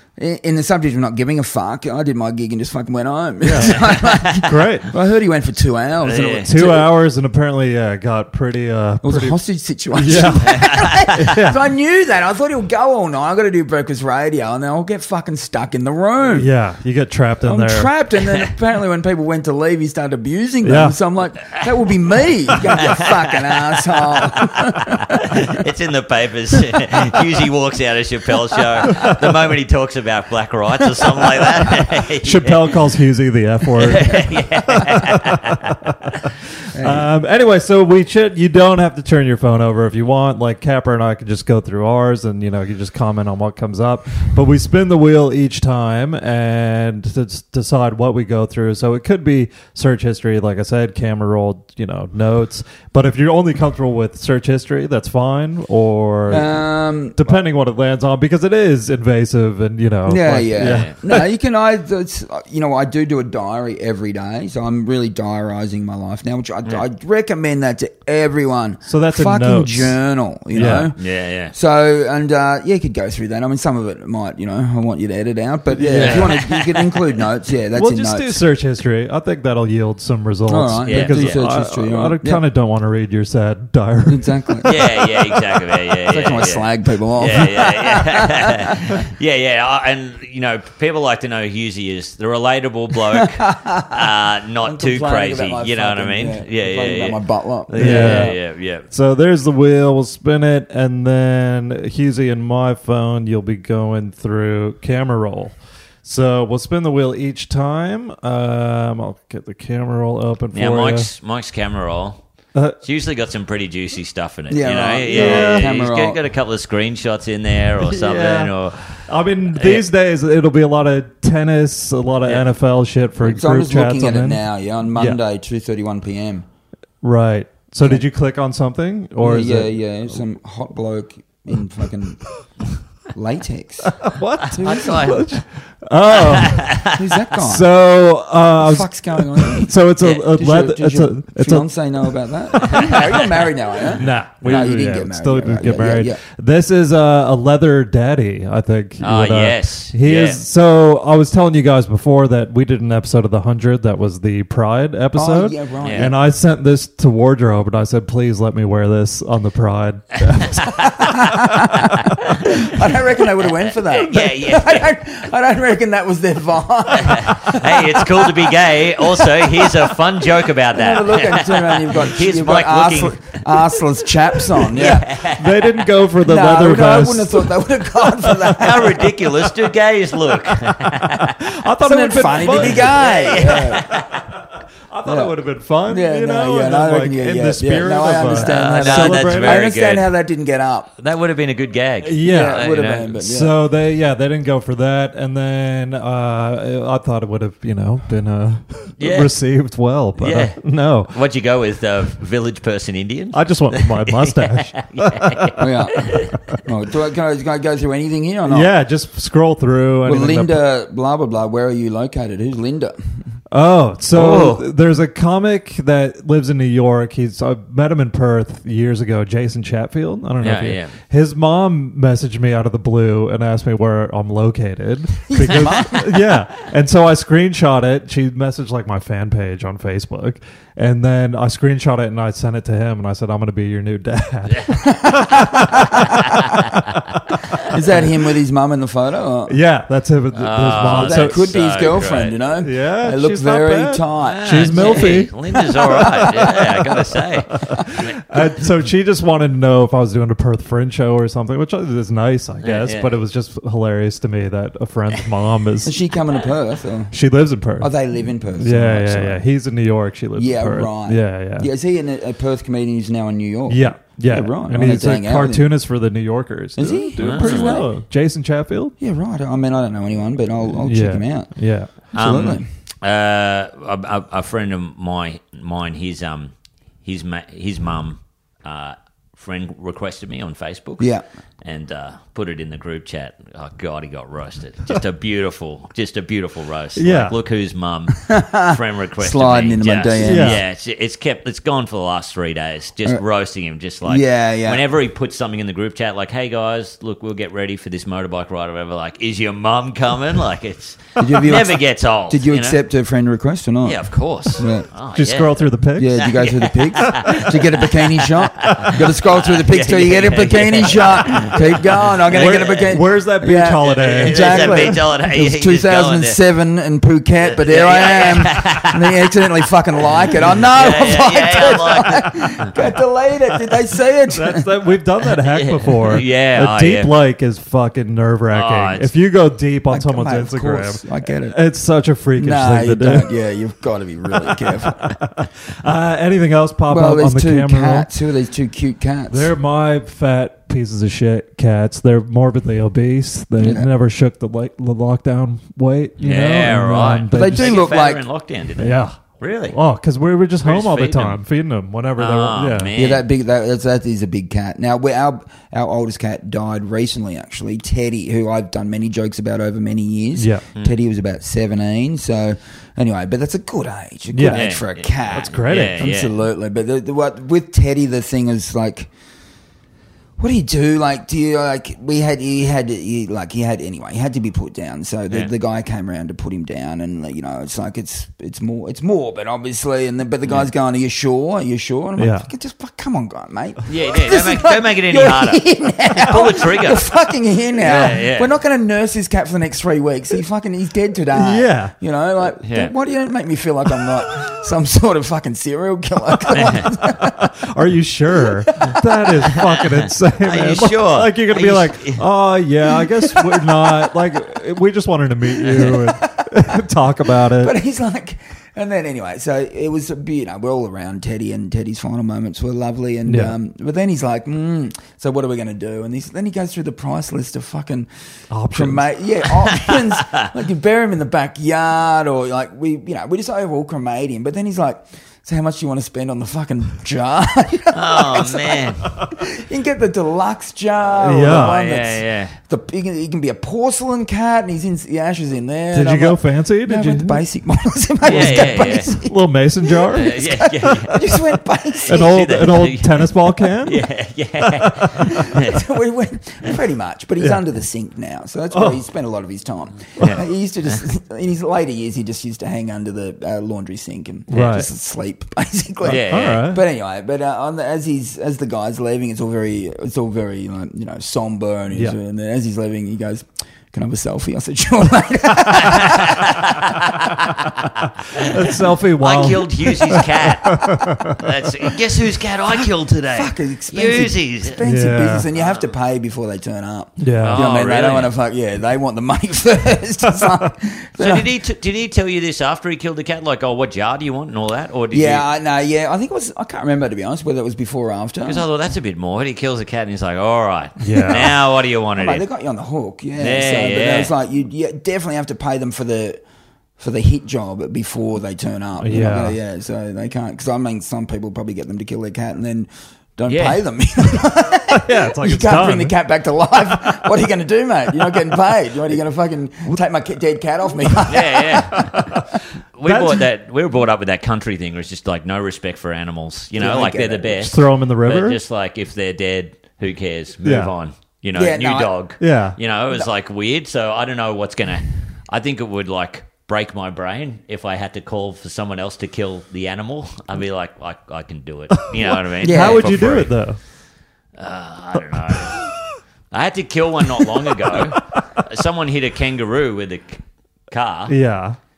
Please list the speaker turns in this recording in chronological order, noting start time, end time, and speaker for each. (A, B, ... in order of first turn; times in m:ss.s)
0:00.2-0:06.9 A
0:03.4-0:03.8 B
0:03.6-0:04.5 C
0:04.4-0:04.9 B
0:06.0-0:06.5 C
0:06.4-0:09.4 B
0:09.0-0:16.5 A
0:09.9-0:11.6 B
0:10.3-0:11.2 C
0:16.3-0:17.9 B
0:17.4-0:25.6 A
0:20.6-0:20.9 B
0:22.6-0:32.7 C
0:28.9-0:29.1 B
0:32.2-0:56.6 B
0:33.8-0:35.7 C
0:36.7-0:37.1 A
0:56.3-0:57.4 A
0:57.2-1:01.2 B
1:00.0-1:11.0 A
1:00.6-1:00.9 C
1:08.8-1:10.0 B
1:10.5-1:10.9 B
1:10.7-1:11.5 C
1:11.5-1:18.4 A
1:15.8-1:16.3 B
1:15.9-1:17.1 C
1:17.7-1:24.3 B
1:20.5-1:22.4 A
1:20.8-1:21.4 C
1:24.1-1:29.0 A
1:24.6-1:38.8 C
1:33.1-1:34.1 A
1:34.6-1:38.3 A
1:37.8-1:51.1 B
1:50.5-1:52.2 C
1:52.8-1:59.9 C
1:54.5-1:56.2 A
1:55.1-1:55.7 B
1:57.8-1:58.5 B
1:59.0-2:04.4 B
2:03.2-2:06.4 A
2:07.0-2:09.7 B
2:09.2-2:12.2 A
2:13.1-2:14.0 A
2:13.8-2:16.8 B
2:14.5-2:15.3 C
2:14.5-2:15.2 A
2:16.2-2:17.2 C
2:16.8-2:17.7 A
2:17.3-2:21.7 B
2:18.5-2:19.7 A
2:20.0-2:20.2 C
2:20.3-2:26.2 A
2:22.5-2:22.9 B
2:22.6-2:23.9 C
2:24.0-2:42.1 B
2:29.0-2:30.4 C
2:35.1-2:36.2 A
2:35.8-2:36.1 C
2:40.4-2:40.9 C
2:40.8-2:55.2 A
2:43.5-2:44.9 C
2:47.0-2:53.7 C
2:54.5-2:55.8 C
2:55.3-2:57.5 B
2:56.2-2:59.5 A
2:58.4-3:01.4 C
3:01.2-3:09.7 B
3:01.8-3:03.9 A
3:02.5-3:04.2 C
3:05.0-3:05.3 A
3:05.9-3:10.9 A
3:08.2-3:10.1 C
3:11.0-3:13.2 C
3:12.0-3:21.1 B
3:12.2-3:13.6 A
3:19.0-3:19.4 C
3:20.2-3:26.6 C
3:23.3-3:26.2 B
3:25.6-3:28.7 A
3:28.5-3:30.6 B
3:30.0-3:33.0 A
3:33.5-3:57.2 B
3:34.1-3:34.6 C
3:40.4-3:40.9 C
3:45.3-3:46.2 A
3:54.8-3:56.0 A
3:56.3-3:56.6 C
3:57.7-3:59.5 A
3:59.5-4:01.5 B
4:00.3-4:02.4 C
4:00.9-4:05.2 A
4:02.6-4:16.0 B
4:04.2-4:08.2 C
4:12.6-4:13.1 C
4:15.8-4:17.1 A
4:17.1-4:17.9 B
4:17.8-4:19.4 A
4:18.6-4:21.7 B
4:20.4-4:25.7 A
4:23.7-4:28.9 B
4:26.8-4:27.9 A
4:27.2-4:27.8 C
4:29.0-4:31.5 A
4:30.8-4:31.9 B
4:32.1-4:32.6 A
4:32.1-4:36.5 C
4:37.0-4:41.1 C
4:41.0-4:41.2 A
4:41.6-5:02.8 C
4:47.0-4:47.3 B
4:48.2-4:50.6 A
4:50.2-4:50.6 B
4:54.0-4:54.8 A
5:01.2-5:04.0 A
5:03.8-5:13.0 C
5:04.5-5:04.9 A
5:05.1-5:06.2 B
5:06.0-5:24.7 A
5:12.3-5:15.0 B
5:13.8-5:16.4 C
5:17.4-5:19.4 C
5:20.3-5:22.7 C
5:24.3-5:33.3 B
5:25.4-5:27.1 C
5:28.5-5:29.1 C
5:29.9-5:31.6 A
5:32.4-5:35.1 A
5:35.0-5:38.1 B
5:36.9-5:39.5 A
5:39.3-5:47.8 B
5:43.6-5:43.9 A
5:46.2-5:49.8 C
5:47.3-5:48.2 A
5:48.8-5:49.2 B
5:49.7-5:52.9 B
5:50.6-5:51.4 C
5:52.2-5:53.2 C
5:52.9-6:09.1 A
6:00.4-6:00.6 B
6:04.3-6:04.7 B
6:04.5-6:06.3 C
6:05.3-6:06.1 B
6:10.4-6:37.4 A
6:22.2-6:22.5 B
6:23.9-6:27.0 C
6:27.8-6:28.5 C
6:31.3-6:31.9 B
6:32.6-6:32.9 C
6:36.5-6:36.9 C
6:37.0-6:47.7 B
6:38.7-6:39.0 A
6:39.6-6:39.9 C
6:40.4-6:42.2 C
6:43.1-6:43.8 A
6:45.5-6:46.7 A
6:47.3-6:58.1 A
6:53.2-6:53.5 B
6:58.5-6:59.1 B
6:58.7-7:22.4 A
6:59.6-7:00.5 C
7:07.9-7:09.1 C
7:11.2-7:11.8 B
7:11.3-7:12.6 C
7:15.9-7:17.4 B
7:18.2-7:19.1 C
7:18.2-7:20.4 B
7:20.1-7:21.2 C
7:22.0-7:25.8 C
7:22.1-7:24.0 B
7:24.8-7:25.2 B
7:25.2-7:47.0 A
7:28.7-7:29.0 B
7:30.2-7:31.0 C
7:34.5-7:34.9 B
7:36.0-7:36.6 C
7:36.0-7:36.8 B
7:45.7-7:48.5 C
7:48.4-7:51.4 B
7:49.2-7:54.8 C
7:52.7-8:01.5 A
7:54.8-7:55.5 B
7:55.5-7:55.9 C
7:57.2-7:57.6 B
7:57.4-7:58.3 C
8:01.2-8:05.4 C
8:05.1-8:08.6 A
8:08.4-8:12.4 C
8:11.0-8:11.5 B
8:11.3-8:11.6 A
8:12.1-8:16.4 A
8:13.4-8:14.3 C
8:17.0-8:32.2 A
8:19.0-8:19.6 B
8:23.5-8:23.8 C
8:24.9-8:26.1 B
8:31.2-8:32.2 C
8:31.9-8:32.5 B
8:33.0-8:53.5 C
8:33.0-8:33.4 B
8:36.8-8:37.6 A
8:37.5-8:38.6 B
8:40.6-8:40.9 B
8:41.5-8:42.1 A
8:42.4-8:42.8 B
8:52.0-8:53.8 B
8:52.6-8:53.1 A
8:54.6-8:55.8 C
8:55.5-8:55.9 B
8:56.5-9:01.3 C
8:57.4-8:58.4 B
9:01.3-9:01.8 B